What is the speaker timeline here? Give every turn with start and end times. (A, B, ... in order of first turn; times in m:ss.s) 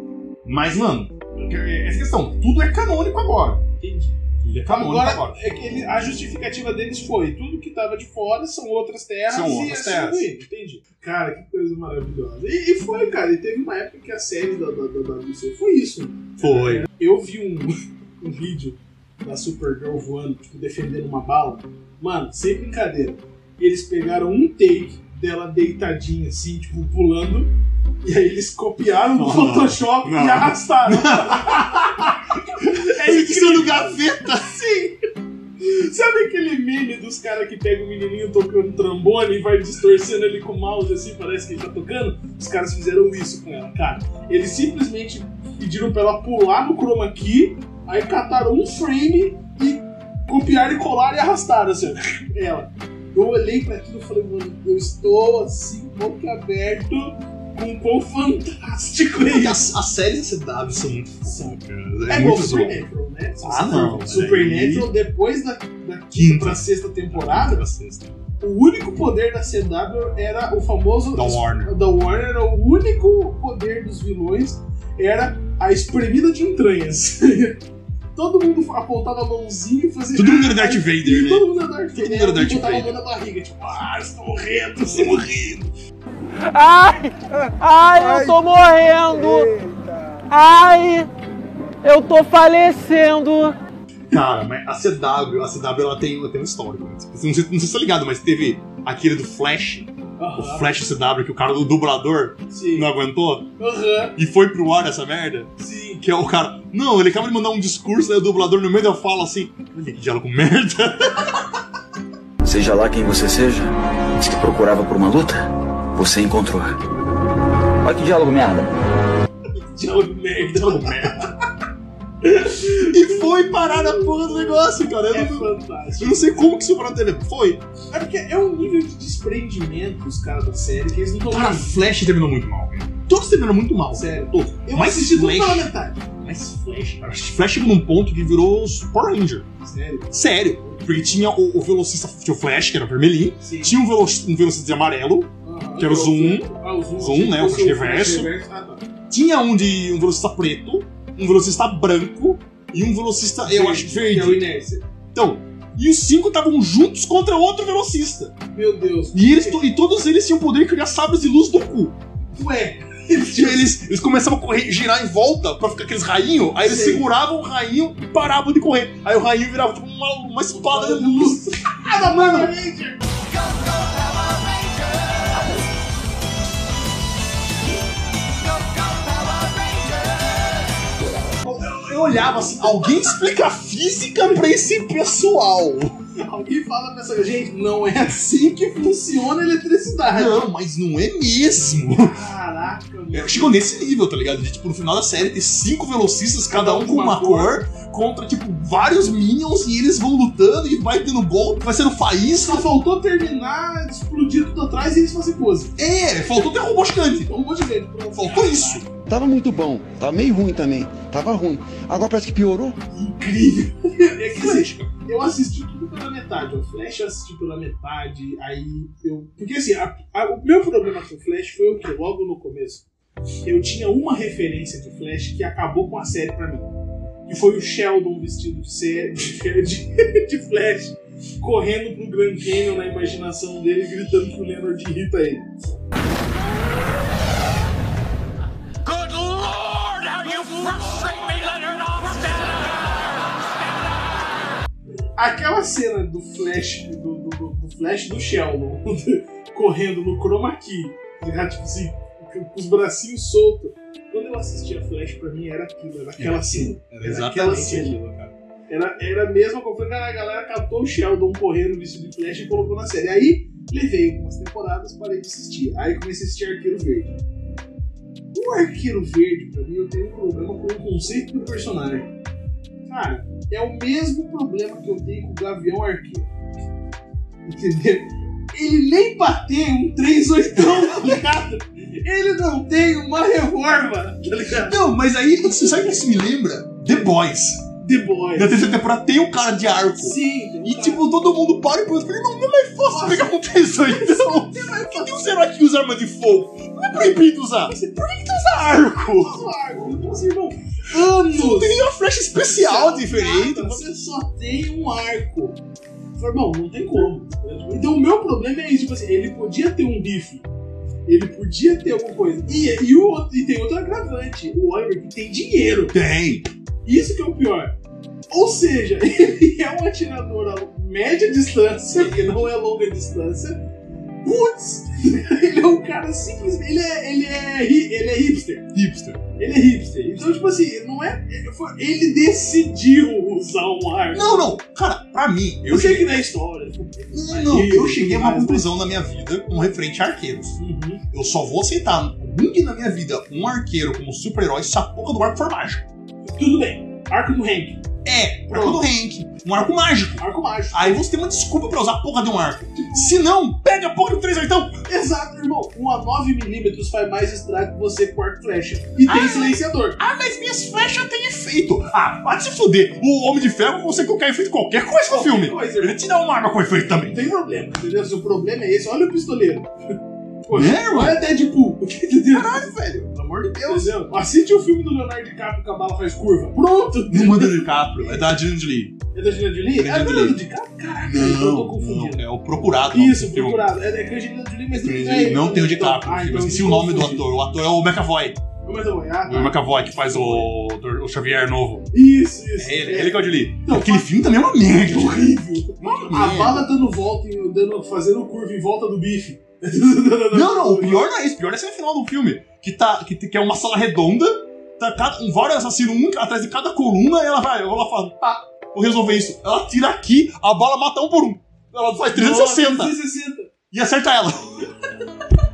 0:00.4-0:03.6 A
0:03.8-0:27.5 B
0:04.4-0:05.4 A
0:09.3-0:10.3 A
0:16.4-0:16.9 A
0:28.0-0:34.0 B
0:29.1-0:35.0 A
0:35.6-0:59.6 B
0:59.2-1:02.8 A
1:01.3-1:07.7 B
1:03.4-1:04.9 A
1:06.1-1:08.2 A
1:08.4-1:17.6 B
1:11.1-1:11.7 A
1:18.2-1:25.7 B
1:20.1-1:23.0 A
1:25.0-1:25.3 A
1:26.4-1:31.1 C
1:31.8-1:33.6 C
1:34.1-1:43.5 A
1:40.2-1:40.8 B
1:42.5-1:42.9 B
1:43.6-1:44.2 B
1:44.2-1:51.4 A
1:45.6-1:46.0 B
1:52.4-1:56.8 D
1:57.8-1:58.8 D
1:59.6-2:01.3 B
2:00.5-2:01.2 A
2:02.2-2:06.5 B
2:02.6-2:07.7 A
2:07.9-2:11.9 B
2:11.3-2:19.5 A
2:13.9-2:16.1 B
2:19.6-2:20.8 B
2:20.1-2:28.3 A
2:23.4-2:23.8 B
2:25.4-2:28.9 B
2:29.1-2:34.4 A
2:33.4-2:34.8 B
2:35.1-2:38.4 A
2:38.5-2:39.6 B
2:39.1-2:42.0 A
2:42.3-2:43.8 B
2:43.3-2:52.5 A
2:46.6-2:47.1 B
2:50.5-2:53.0 B
2:59.4-2:59.9 A
3:01.4-3:06.0 A
3:06.2-3:10.4 B
3:10.0-3:12.2 A
3:11.9-3:13.6 B
3:13.1-3:22.7 A
3:16.5-3:17.6 B
3:22.4-3:25.8 B
3:25.8-3:27.3 A
3:26.8-3:28.9 B
3:28.1-3:28.9 A
3:29.1-3:32.8 E
3:32.9-3:42.8 B
3:34.3-3:34.9 A
3:43.4-3:46.7 B
3:47.3-3:55.5 B
3:58.9-4:03.8 C
4:05.2-4:18.0 B
4:16.2-4:18.3 A
4:18.7-4:27.2 B
4:28.3-4:32.1 B
4:32.9-4:36.3 B
4:37.4-4:44.8 B
4:40.7-4:41.1 A
4:44.6-4:47.7 A
4:47.8-4:48.7 B
4:48.4-4:59.4 A
4:50.0-4:51.0 B
4:52.9-4:55.2 B
4:57.7-4:58.0 B
4:59.2-5:01.8 B
5:01.3-5:03.9 A
5:02.4-5:05.6 B
5:06.2-5:10.5 B
5:11.1-5:16.0 B
5:15.9-5:16.5 A
5:16.8-5:17.7 B
5:18.3-5:23.6 B
5:21.9-5:22.5 A
5:24.2-5:28.7 B
5:28.7-5:29.2 A
5:29.4-5:34.4 B
5:34.1-5:36.2 A
5:35.6-5:38.7 B
5:37.1-5:40.6 A
5:40.6-5:41.0 B
5:41.1-5:45.8 A
5:46.3-5:47.8 B
5:48.0-5:54.8 A
5:48.5-5:48.9 B
5:50.2-5:51.0 B
5:52.7-5:53.2 B
5:54.9-6:00.0 B
5:59.1-6:07.2 A
6:05.1-6:06.0 B
6:07.0-6:09.7 B
6:10.4-6:18.3 B
6:10.5-6:11.2 A
6:12.3-6:13.9 A
6:17.1-6:19.0 A
6:19.1-6:22.2 B
6:19.8-6:20.4 A
6:21.0-6:23.7 A
6:22.9-6:27.3 B
6:24.7-6:28.4 A
6:28.6-6:30.5 B
6:29.2-6:31.9 A
6:31.9-6:41.1 B
6:32.6-6:36.7 A
6:40.3-6:53.0 A
6:52.1-6:53.5 B
6:53.7-6:54.7 A